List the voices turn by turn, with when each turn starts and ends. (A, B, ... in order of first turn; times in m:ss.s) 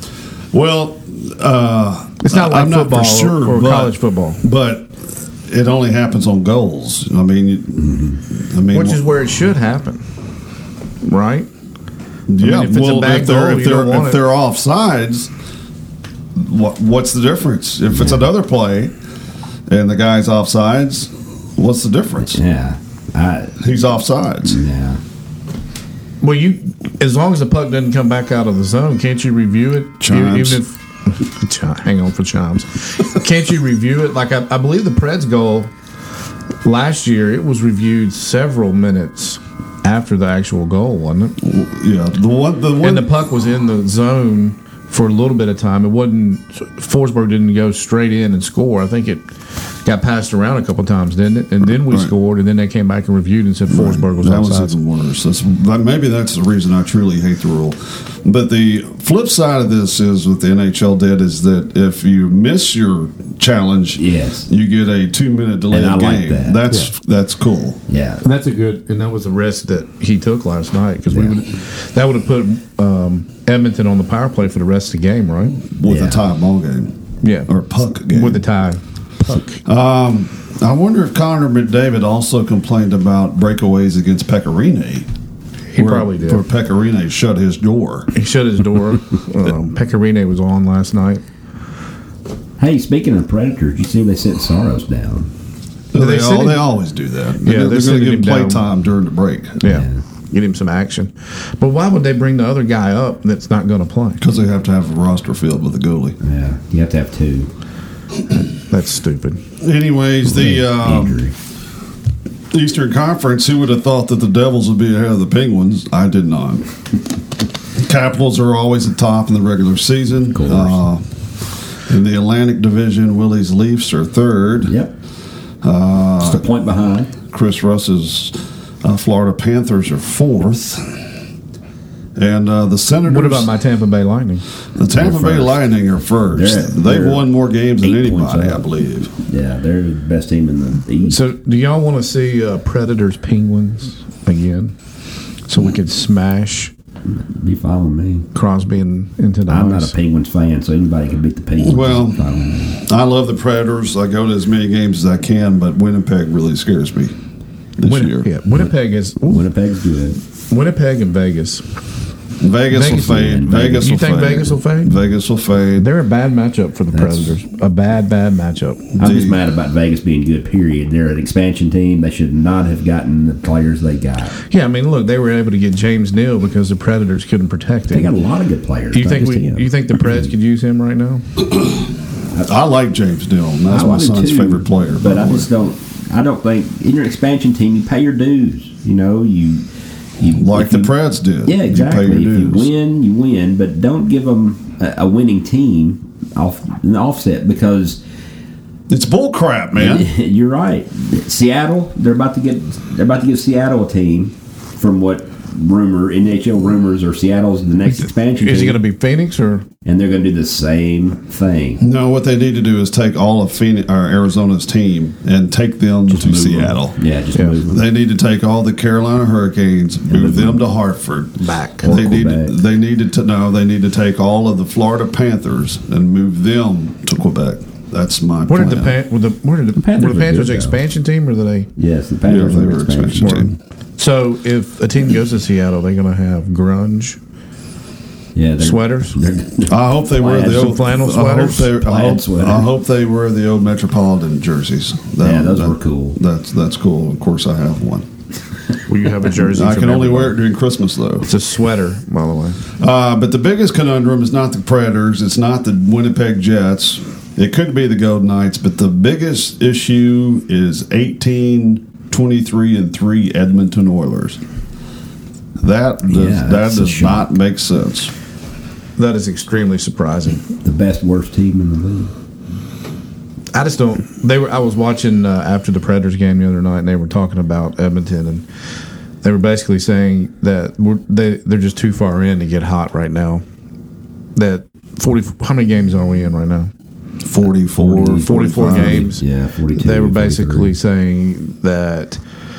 0:00.5-0:09.2 A
0:02.2-0:04.4 B
0:07.8-0:08.2 C
0:08.7-0:10.0 B
0:11.0-0:11.5 B
0:12.3-0:15.3 A
0:12.4-0:14.2 B
0:16.3-0:18.9 A
0:17.9-0:18.2 C
0:19.7-0:22.4 A
0:22.3-0:23.6 C
0:23.6-0:24.6 A
0:24.4-0:25.0 C
0:26.2-0:35.7 B
0:30.0-0:30.6 A
0:36.6-0:41.4 B
0:41.4-0:43.1 A
0:42.8-0:49.2 B
0:49.8-0:54.7 B
0:51.8-0:52.1 A
0:53.7-1:07.8 A
1:04.0-1:04.5 C
1:05.7-1:06.6 C
1:07.9-1:08.2 C
1:08.2-1:15.6 B
1:11.1-1:11.4 C
1:15.7-1:17.0 A
1:15.8-1:16.2 C
1:17.2-1:17.5 B
1:17.5-1:18.4 A
1:18.0-1:19.6 B
1:19.6-1:25.1 A
1:25.7-1:26.4 B
1:25.8-1:28.1 A
1:28.1-1:31.2 B
1:32.6-1:35.3 C
1:35.9-1:39.6 A
1:36.0-1:36.7 B
1:37.4-1:38.6 B
1:39.6-1:44.2 B
1:39.6-1:40.0 C
1:44.2-1:46.2 A
1:46.2-1:47.5 C
1:48.7-1:49.4 B
1:49.6-1:51.2 A
1:50.3-1:51.3 C
1:52.5-1:56.7 A
1:57.8-2:01.0 A
2:00.3-2:00.8 C
2:01.8-2:04.7 A
2:04.6-2:04.9 C
2:05.6-2:06.4 A
2:06.2-2:07.1 C
2:07.3-2:11.1 A
2:12.2-2:13.5 A
2:13.0-2:14.4 B
2:14.8-2:19.1 A
2:14.9-2:15.7 C
2:16.3-2:17.3 C
2:17.8-2:18.6 C
2:19.2-2:21.2 C
2:21.1-2:24.7 B
2:25.5-2:26.7 B
2:27.0-2:28.3 C
2:28.3-2:30.0 B
2:29.5-2:32.8 C
2:31.6-2:37.1 A
2:37.8-2:38.3 A
2:37.8-2:39.5 B
2:39.3-2:40.2 C
2:40.5-2:41.7 B
2:42.4-2:45.9 A
2:42.7-2:45.0 B
2:42.8-2:43.9 C
2:45.8-2:48.9 B
2:46.9-2:47.3 C
2:49.0-2:49.4 A
2:49.0-2:54.4 C
2:54.5-2:58.1 B
2:57.9-3:00.2 C
2:58.9-3:01.2 B
3:01.6-3:01.8 A
3:02.4-3:05.5 A
3:03.7-3:09.6 C
3:10.2-3:10.9 C
3:10.2-3:12.7 A
3:11.4-3:18.0 C
3:18.9-3:20.1 A
3:19.7-3:28.8 C
3:28.0-3:29.7 B
3:29.8-3:31.8 C
3:31.8-3:37.0 A
3:36.1-3:37.8 C
3:37.3-3:37.6 B
3:37.7-3:49.0 A
3:40.1-3:40.6 C
3:41.4-3:42.0 B
3:41.8-3:42.5 C
3:48.5-3:51.7 B
3:49.8-3:50.8 C
3:51.8-3:53.4 C
3:52.2-3:53.6 A
3:53.2-3:57.2 B
3:58.3-4:00.8 C
3:58.6-3:59.2 B
3:59.6-4:08.1 A
4:00.4-4:01.7 B
4:01.7-4:02.7 C
4:05.2-4:06.2 C
4:08.9-4:10.4 B
4:09.4-4:11.3 A
4:11.2-4:12.7 B
4:12.8-4:24.4 A
4:25.6-4:28.1 A
4:26.1-4:27.3 C
4:29.0-4:30.5 B
4:30.6-4:32.1 C
4:33.5-4:38.4 B
4:39.2-4:43.4 B
4:44.3-4:46.7 B
4:47.2-4:49.1 A
4:47.8-4:50.7 C
4:48.2-4:49.2 B
4:49.7-4:52.2 B